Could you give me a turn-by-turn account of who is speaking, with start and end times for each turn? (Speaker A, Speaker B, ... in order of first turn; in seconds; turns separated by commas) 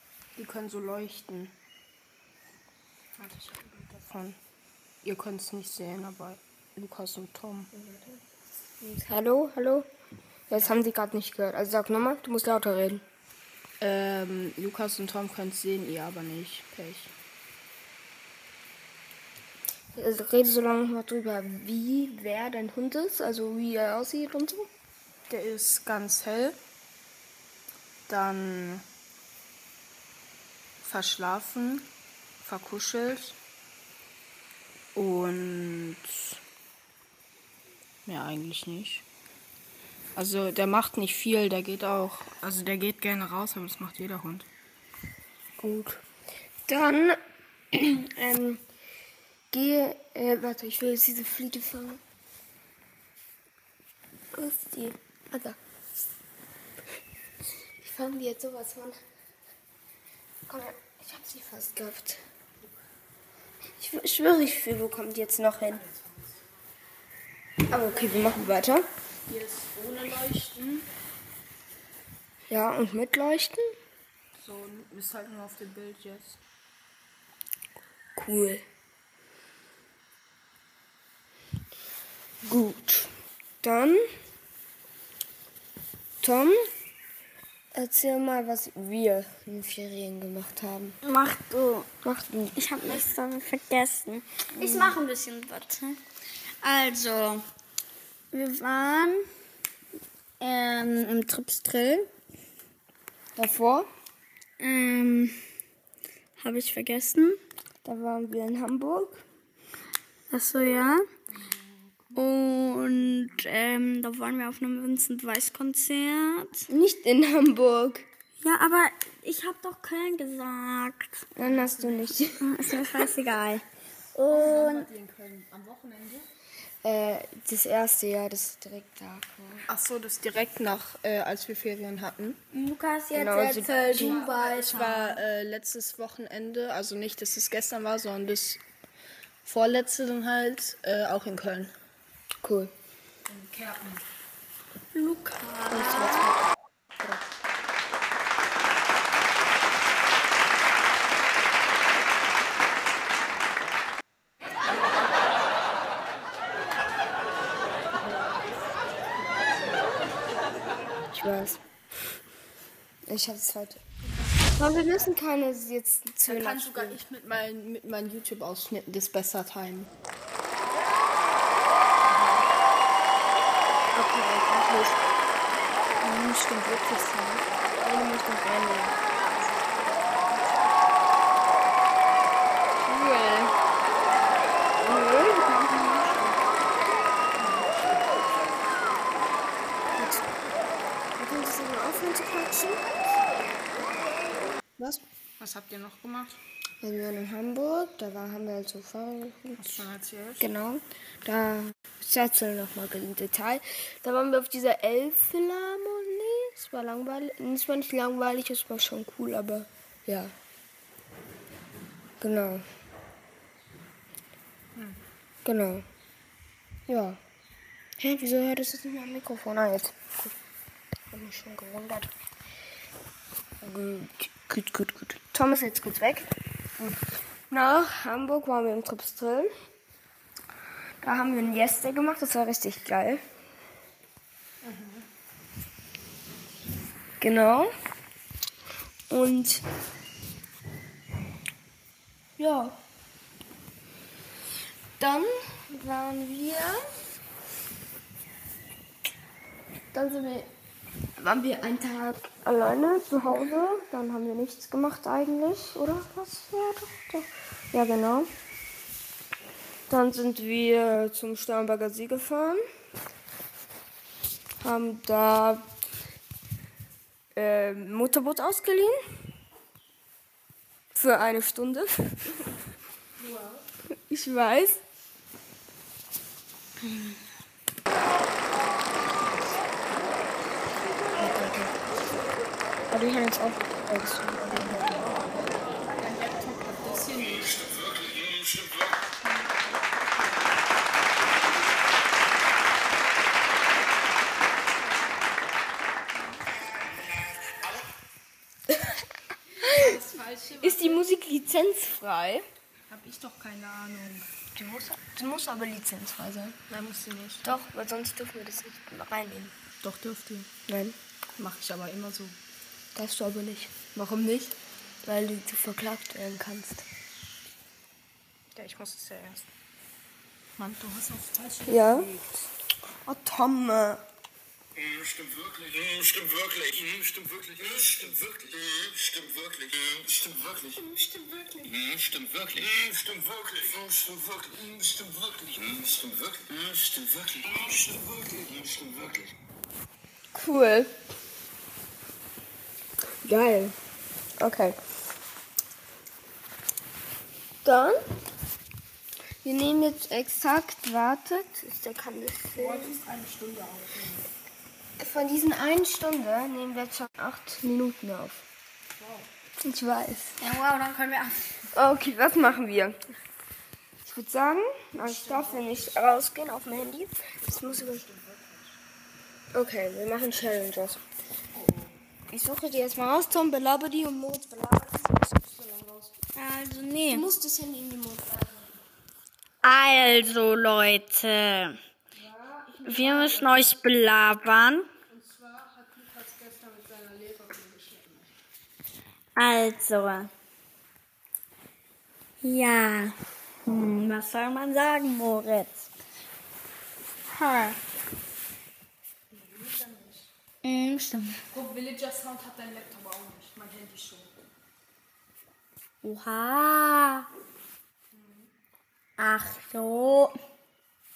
Speaker A: 0.4-1.5, Speaker A: 3.2-4.4, Speaker A: 5.0-7.7, Speaker B: 7.7-8.2, Speaker B: 8.8-9.9, Speaker B: 10.5-13.0, Speaker A: 13.8-17.1, Speaker B: 19.9-24.7, Speaker A: 25.3-26.6, Speaker A: 28.1-28.8, Speaker A: 30.8-31.9, Speaker A: 32.4-33.4, Speaker A: 35.0-36.4, Speaker A: 38.1-39.0, Speaker A: 40.2-44.5, Speaker B: 45.6-46.0, Speaker B: 46.7-47.2, Speaker B: 47.7-48.6, Speaker B: 49.5-52.0, Speaker B: 54.3-55.6, Speaker B: 57.8-59.0, Speaker B: 60.5-62.2, Speaker B: 63.8-65.8, Speaker A: 65.8-66.3, Speaker A: 67.7-68.6, Speaker B: 67.7-68.9, Speaker A: 69.3-70.9, Speaker B: 72.5-73.8, Speaker A: 74.4-76.4, Speaker B: 78.2-78.7, Speaker B: 82.4-84.1, Speaker B: 86.2-86.7, Speaker B: 87.7-91.0, Speaker C: 91.0-91.9, Speaker B: 92.0-93.0, Speaker C: 92.6-96.0, Speaker B: 94.5-95.0, Speaker C: 96.6-97.5, Speaker C: 98.3-99.3, Speaker C: 100.4-102.1, Speaker B: 103.4-103.9, Speaker C: 104.6-105.4, Speaker C: 106.4-107.4, Speaker B: 107.8-109.2, Speaker C: 110.3-111.1, Speaker A: 111.3-112.2, Speaker C: 112.2-116.7, Speaker B: 116.7-118.1, Speaker C: 118.4-121.3, Speaker B: 121.4-122.4, Speaker A: 121.4-122.2, Speaker C: 122.4-124.9, Speaker A: 124.3-126.3, Speaker B: 126.8-129.7, Speaker A: 129.7-132.4, Speaker C: 132.5-135.2, Speaker B: 133.1-134.2, Speaker A: 133.6-138.6, Speaker A: 139.4-141.7, Speaker B: 142.4-142.7, Speaker A: 143.3-144.1, Speaker C: 144.9-146.3, Speaker B: 145.7-146.5, Speaker A: 159.2-160.6, Speaker B: 160.9-161.6, Speaker B: 163.1-163.8, Speaker B: 164.5-167.0, Speaker A: 166.2-169.9, Speaker A: 172.0-172.5, Speaker B: 173.9-175.0, Speaker B: 176.0-179.0, Speaker A: 179.1-180.8, Speaker B: 182.8-183.5, Speaker B: 184.8-186.2, Speaker A: 187.3-188.5, Speaker B: 191.2-192.8, Speaker A: 194.8-196.4, Speaker B: 196.8-199.9, Speaker A: 199.6-200.5, Speaker B: 200.4-210.3, Speaker B: 212.2-212.7, Speaker B: 215.4-215.9, Speaker B: 216.9-217.2, Speaker B: 218.0-220.3, Speaker B: 221.1-222.1, Speaker B: 223.6-229.5, Speaker B: 231.0-233.2, Speaker A: 234.6-235.1, Speaker B: 237.2-237.7, Speaker B: 239.1-239.6, Speaker B: 242.4-242.8, Speaker B: 245.0-246.9, Speaker B: 249.9-250.5, Speaker B: 251.2-258.3, Speaker B: 259.9-262.6, Speaker B: 264.6-265.7, Speaker B: 267.4-269.0, Speaker B: 270.9-272.6, Speaker A: 273.2-273.6, Speaker B: 274.1-274.8, Speaker B: 281.1-281.8, Speaker B: 282.9-285.2, Speaker A: 285.9-287.6, Speaker D: 287.7-288.9, Speaker A: 289.2-290.4, Speaker A: 299.6-301.0, Speaker B: 299.6-300.0, Speaker B: 300.6-302.5, Speaker A: 302.9-304.3, Speaker B: 304.5-306.6, Speaker A: 306.7-307.5, Speaker B: 307.4-309.5, Speaker A: 309.8-310.5, Speaker B: 310.7-311.0, Speaker A: 311.4-312.4, Speaker B: 312.9-314.0, Speaker A: 314.0-314.6, Speaker B: 315.0-316.9, Speaker A: 318.6-319.5, Speaker A: 320.6-322.5, Speaker B: 321.7-322.1, Speaker B: 323.1-324.0, Speaker D: 324.8-330.7, Speaker A: 327.6-328.2, Speaker B: 330.8-331.9, Speaker D: 331.9-339.3, Speaker B: 340.3-341.1, Speaker B: 343.2-343.8, Speaker B: 344.4-344.8, Speaker B: 347.6-348.0, Speaker B: 349.4-353.0, Speaker A: 352.6-354.3, Speaker B: 355.0-358.4, Speaker A: 359.0-359.3, Speaker B: 359.6-360.4, Speaker C: 360.4-361.6, Speaker B: 361.7-363.1, Speaker B: 364.0-368.0, Speaker A: 365.0-366.0, Speaker A: 367.4-368.7, Speaker B: 369.5-371.0, Speaker A: 371.5-371.9, Speaker B: 372.3-376.1, Speaker C: 376.4-377.3, Speaker B: 377.1-378.8, Speaker C: 379.6-381.8, Speaker B: 382.1-383.7, Speaker C: 382.9-384.9, Speaker A: 385.1-388.3, Speaker C: 389.4-390.3, Speaker C: 392.4-395.9, Speaker C: 397.3-397.8, Speaker A: 399.3-400.3, Speaker C: 400.6-401.4, Speaker A: 401.5-404.3, Speaker C: 406.0-407.3, Speaker A: 408.1-408.5, Speaker C: 409.2-410.4